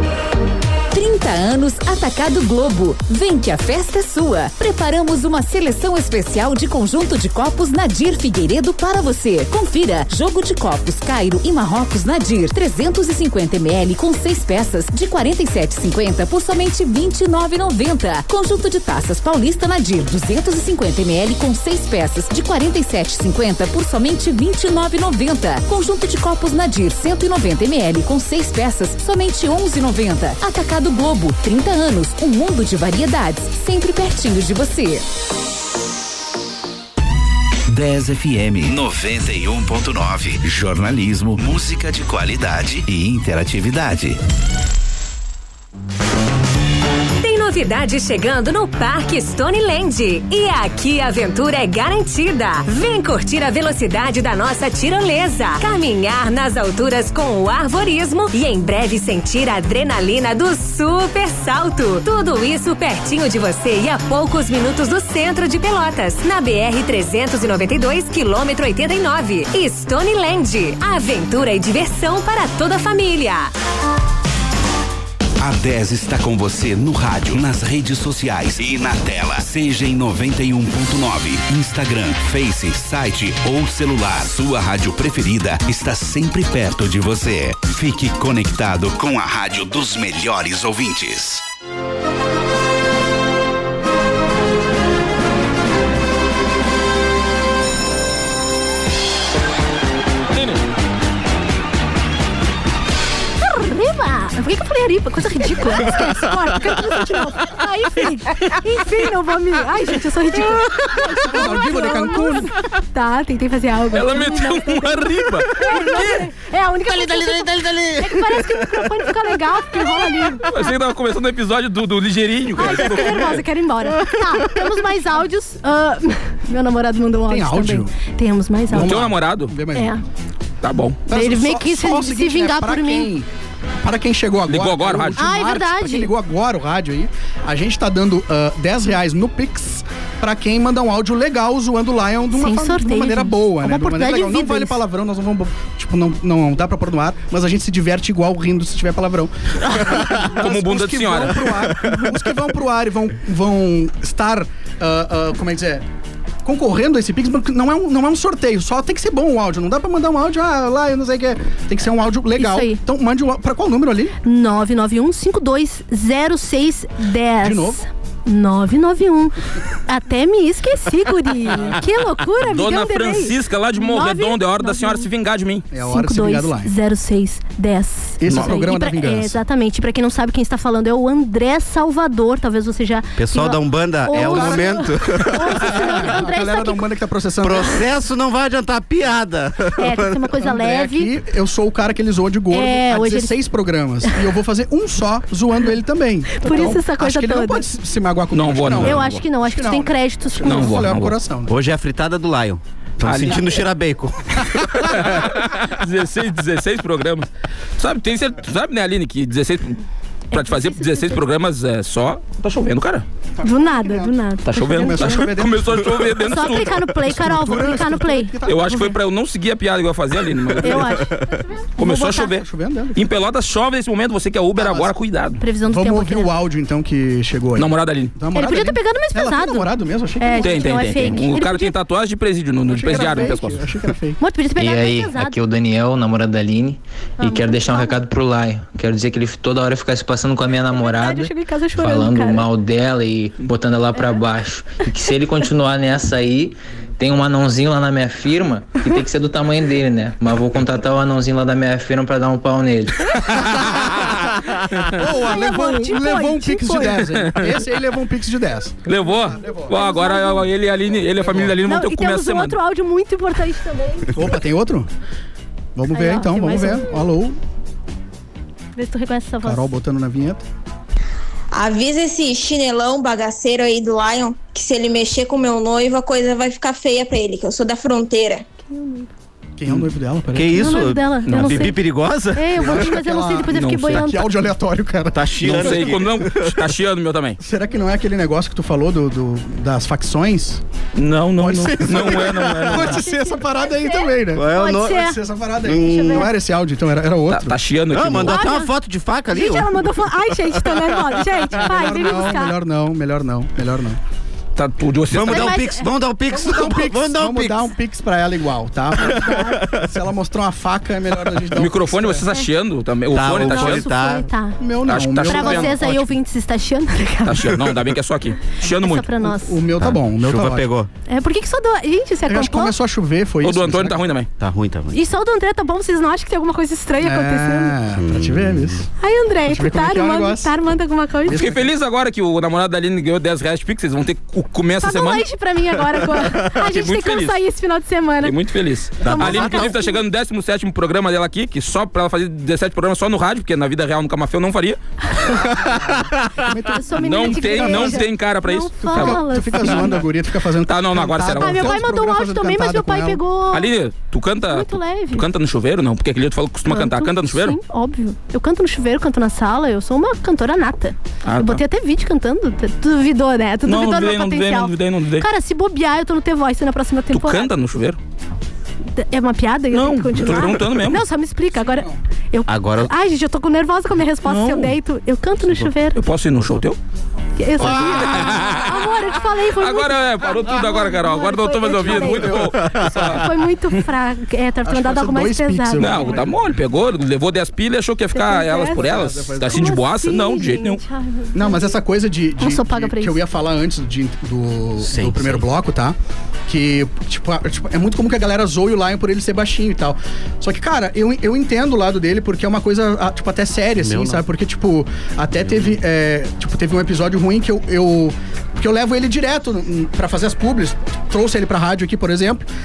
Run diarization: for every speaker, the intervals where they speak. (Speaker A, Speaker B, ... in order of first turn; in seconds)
Speaker A: 0.9-35.0
Speaker B: 37.7-44.2, 75.4-91.4
Speaker C: 47.2-73.5
Speaker D: 100.3-100.6, 113.9-116.0, 120.5-123.4, 128.7-129.5, 130.6-131.0, 134.5-135.2, 150.0-151.7, 172.4-175.7, 178.3-178.5, 198.3-199.2, 200.4-201.2, 203.0-203.4, 204.8-207.3, 207.8-209.8, 210.3-213.1, 214.5-216.9, 218.5-221.1, 221.8-225.4, 227.6-228.1, 230.4-233.6, 253.2-254.9, 257.1-257.6, 258.9-262.6, 281.3-281.7, 283.5-284.1, 285.4-287.4, 290.9-293.1, 297.3-298.4, 304.6-305.6, 311.6-313.9, 314.9-315.8, 317.3-319.1, 323.4-324.3, 331.3-335.3, 336.4-337.4, 338.2-344.8, 347.0-349.9, 350.7-351.8, 353.5-357.6, 361.2-361.6, 363.7-365.3, 367.1-368.0, 369.7-371.0, 374.2-374.8, 375.9-376.8, 377.6-379.0, 379.6-383.3, 385.8-390.8
Speaker E: 103.4-120.8, 122.5-129.0, 129.8-130.0, 131.1-133.1, 135.2-136.1, 142.3-144.8, 162.4-162.8, 164.2-169.3, 169.9-175.1, 175.8-186.9, 189.8-191.1, 192.5-193.4, 196.4-197.7, 198.8-200.8, 210.3-211.2, 213.4-215.3, 216.2-218.9, 220.6-222.3, 225.4-226.3, 228.3-231.7, 234.2-235.4, 237.2-238.0, 240.7-242.5, 255.0-257.1, 259.7-260.5, 261.6-264.2, 265.9-267.0, 268.8-269.7, 278.6-279.1, 280.5-284.3, 292.7-295.2, 295.7-296.3, 298.2-298.8, 299.3-302.6, 305.3-305.9, 309.1-309.6, 313.3-314.6, 315.2-317.6, 318.6-319.6, 321.1-322.8, 324.9-327.8, 329.0-331.5, 334.8-338.4, 339.0-340.0, 346.6-350.0, 351.4-353.7, 354.5-355.2, 356.7-367.5, 368.9-376.0, 377.4-386.2, 388.1-391.8, 392.4-393.2
Speaker F: 111.0-112.5, 127.3-127.9, 128.7-130.0, 131.1-133.3, 133.8-155.8, 156.4-164.1, 167.4-167.8, 175.7-176.7, 178.2-179.4, 184.1-187.9, 190.4-201.5, 213.5-214.1, 214.7-218.9, 221.9-223.1, 224.6-224.9, 225.7-231.2, 232.7-234.2, 254.9-259.7, 261.2-261.6, 264.1-264.9, 265.8-267.4, 269.4-270.4, 279.6-280.9, 282.5-286.1, 287.4-290.6, 291.4-297.6, 301.5-304.0, 306.3-312.2, 314.6-316.1, 319.2-320.7, 322.3-324.0, 327.0-328.9, 329.5-330.5, 331.3-331.7, 345.3-348.0, 348.8-353.2, 381.9-382.4, 384.6-386.5, 388.7-389.8, 391.4-396.0, 396.5-412.5
Speaker G: 117.2-118.2, 183.2-186.0, 187.4-190.2, 201.5-204.9, 279.7-282.7, 285.1-286.6, 294.3-295.1, 295.6-296.3, 297.9-299.8, 305.1-307.7, 313.1-314.3, 319.8-320.9, 324.4-325.0, 328.0-328.8, 339.0-339.8, 372.5-372.9, 394.8-395.5, 403.8-404.3
Speaker H: 234.6-253.2
Speaker I: 271.5-278.4